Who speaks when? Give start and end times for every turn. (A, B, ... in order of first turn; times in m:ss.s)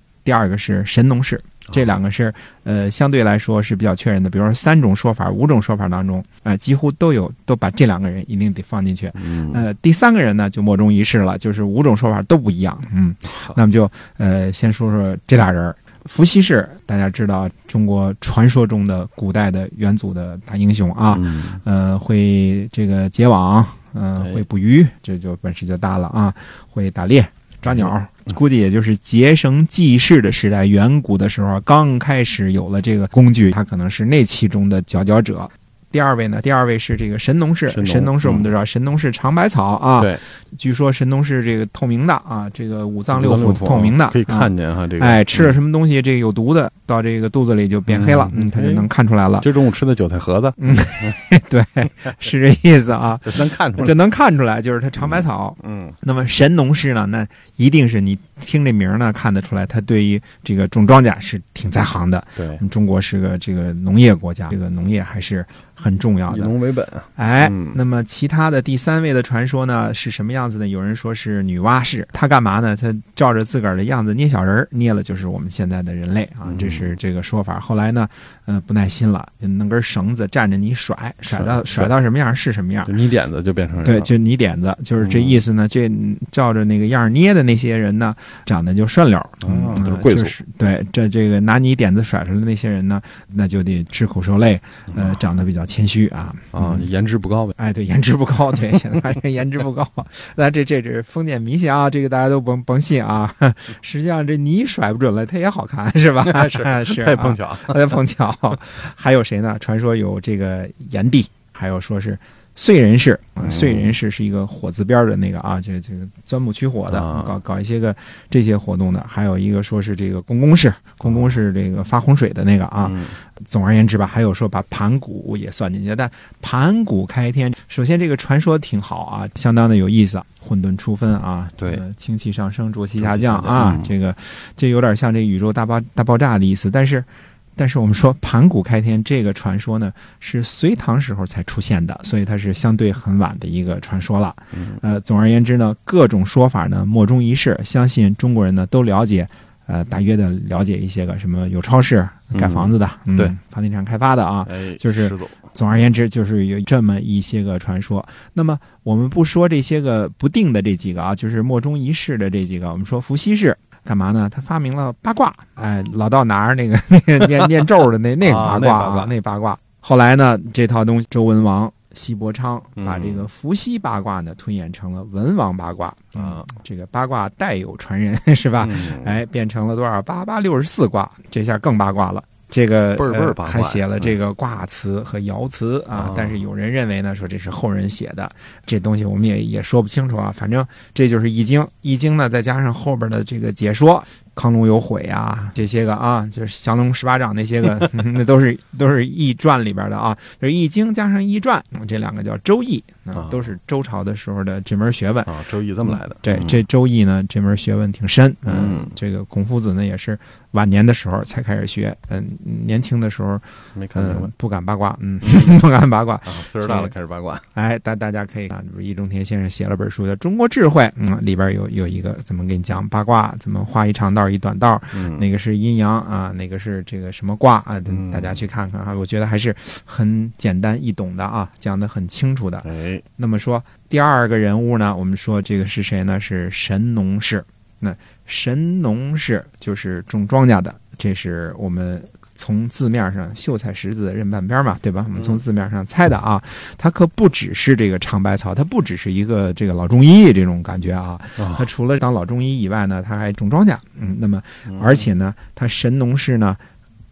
0:00.2-0:49.5 A
0:09.2-0:09.6 B
0:21.1-0:21.6 B
0:24.2-0:24.4 B
0:37.7-0:38.5 B
0:43.1-0:45.6 B
0:47.9-0:48.9 B
0:49.4-0:51.2 B
0:50.6-1:06.6 A
0:53.2-0:54.0 B
0:55.0-0:56.0 B
1:02.4-1:02.6 B
1:06.3-1:07.8 B
1:07.2-1:22.9 A
1:16.4-1:17.0 B
1:21.3-1:21.9 B
1:22.9-1:24.1 B
1:23.8-1:36.8 A
1:25.0-1:25.4 B
1:29.4-1:30.3 B
1:36.5-1:37.6 B
1:37.6-3:25.3 A
1:46.2-1:47.8 B
1:53.4-1:54.0 B
1:56.9-1:57.4 B
2:01.0-2:01.3 B
2:02.8-2:03.2 B
2:11.6-2:11.8 B
2:13.0-2:13.9 B
2:24.5-2:24.8 B
2:32.3-2:33.4 B
2:34.5-2:35.6 B
2:48.2-2:49.2 B
2:52.8-2:53.3 B
2:56.2-2:56.5 B
2:58.6-2:59.2 B
3:03.0-3:04.2 B
3:05.9-3:06.4 B
3:23.1-3:23.4 B
3:25.2-3:26.6 B
3:25.8-3:37.0 A
3:28.4-3:28.9 B
3:33.8-3:34.3 B
3:35.2-3:35.6 B
3:36.2-3:37.4 B
3:37.5-4:16.6 A
3:44.9-3:45.2 B
3:47.9-3:48.4 B
3:52.6-3:53.0 B
4:11.4-4:11.7 B
4:14.7-4:15.1 B